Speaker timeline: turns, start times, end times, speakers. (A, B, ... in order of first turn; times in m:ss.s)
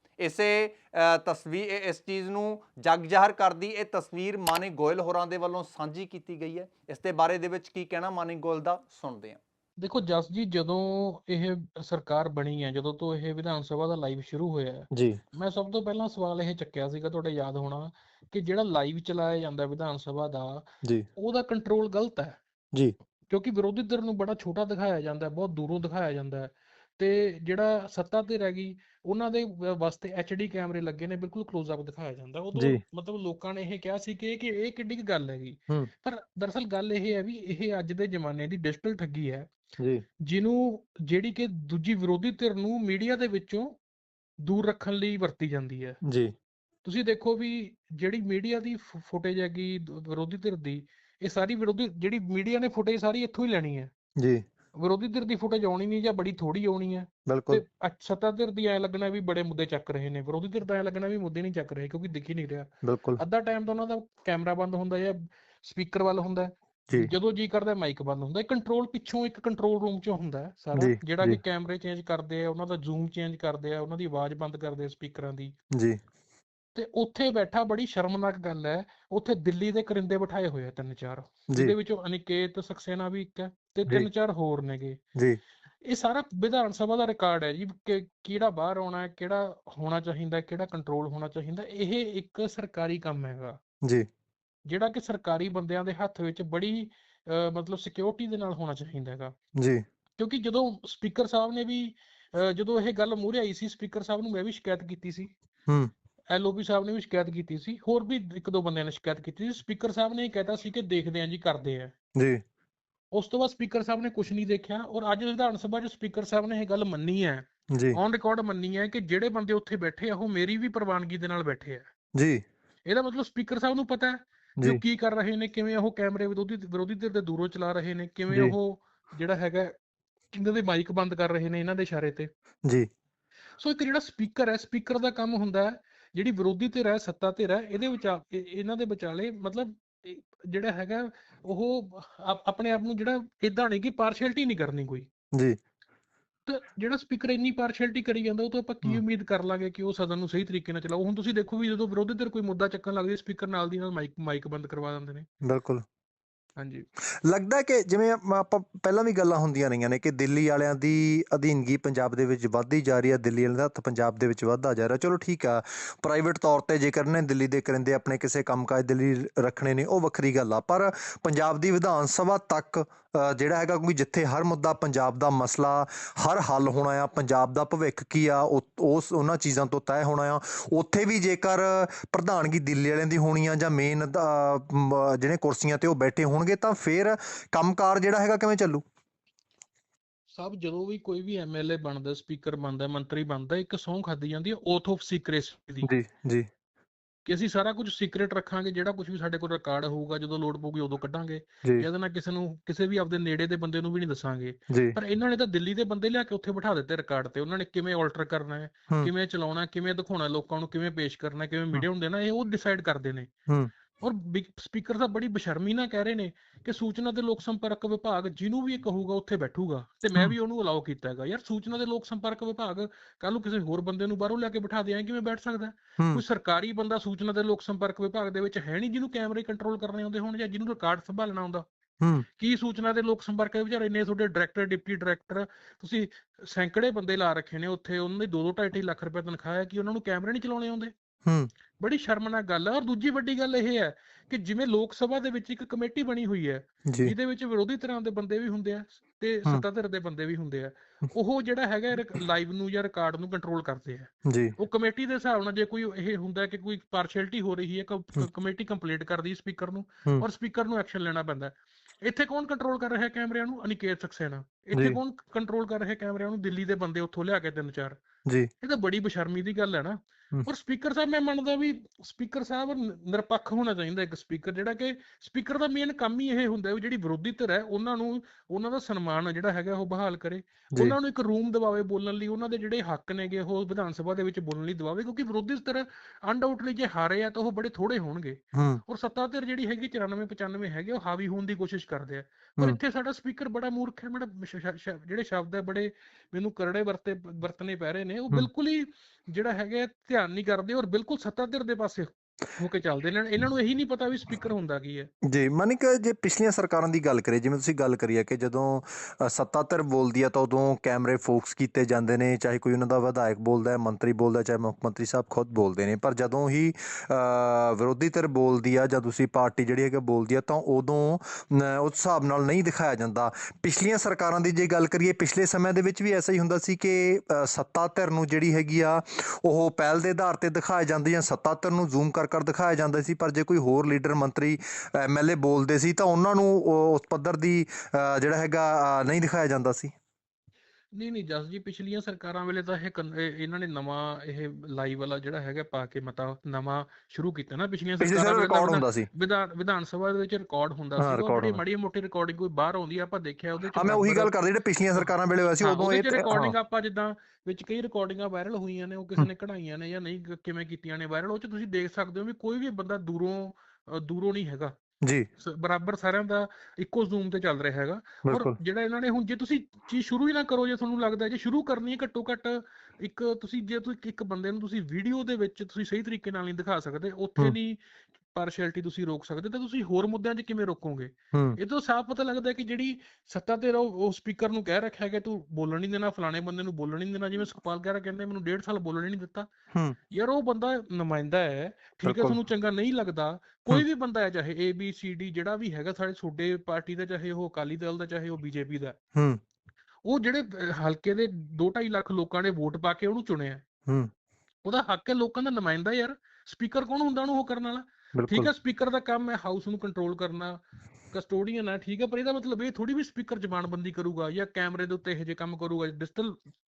0:00.2-0:09.4 A
0:09.8-0:22.4 B
0:14.9-0:15.2 C
0:23.3-0:39.5 B
0:32.5-0:32.8 C
0:39.8-0:40.0 C
0:40.2-0:43.7 B
0:44.4-0:46.0 B
0:46.0-0:46.3 C
0:46.8-0:53.9 B
0:54.8-1:15.6 B
0:57.3-0:57.6 C
1:02.8-1:03.2 C
1:10.7-1:11.4 C
1:16.7-1:25.0 B
1:25.8-1:33.6 B
1:34.6-1:39.3 B
1:40.2-1:45.3 B
1:46.3-1:51.9 B
1:53.1-2:01.9 B
2:02.2-2:02.4 C
2:02.8-2:09.7 B
2:08.3-2:08.5 C
2:10.3-2:12.3 B
2:13.6-2:25.1 B
2:26.5-2:35.3 B
2:35.4-2:35.8 C
2:36.6-2:36.9 B
2:37.2-3:08.8 C
3:10.3-3:15.9 B
3:15.8-3:16.5 C
3:17.2-3:33.3 B
3:24.7-3:25.0 C
3:34.0-3:51.6 B
3:52.0-3:52.2 C
3:52.4-4:00.9 B
4:01.2-4:01.5 C
4:01.8-4:28.0 B
4:06.8-4:07.1 C
4:14.2-4:14.5 C
4:24.7-4:25.0 C
4:28.6-5:05.1 B
4:48.5-4:48.8 C
5:05.3-5:39.9 C
5:40.9-5:54.3 B
5:48.0-5:49.1 C
5:51.0-5:51.6 C
5:53.7-5:56.6 C
5:54.9-6:04.7 B
6:05.4-6:17.8 B
6:08.2-6:08.5 C
6:18.3-6:29.5 B
6:21.3-6:21.6 C
6:29.7-6:30.0 C
6:30.1-6:39.0 B
6:32.0-6:32.4 C
6:40.0-6:43.6 B
6:44.6-6:56.4 B
6:48.1-6:48.5 C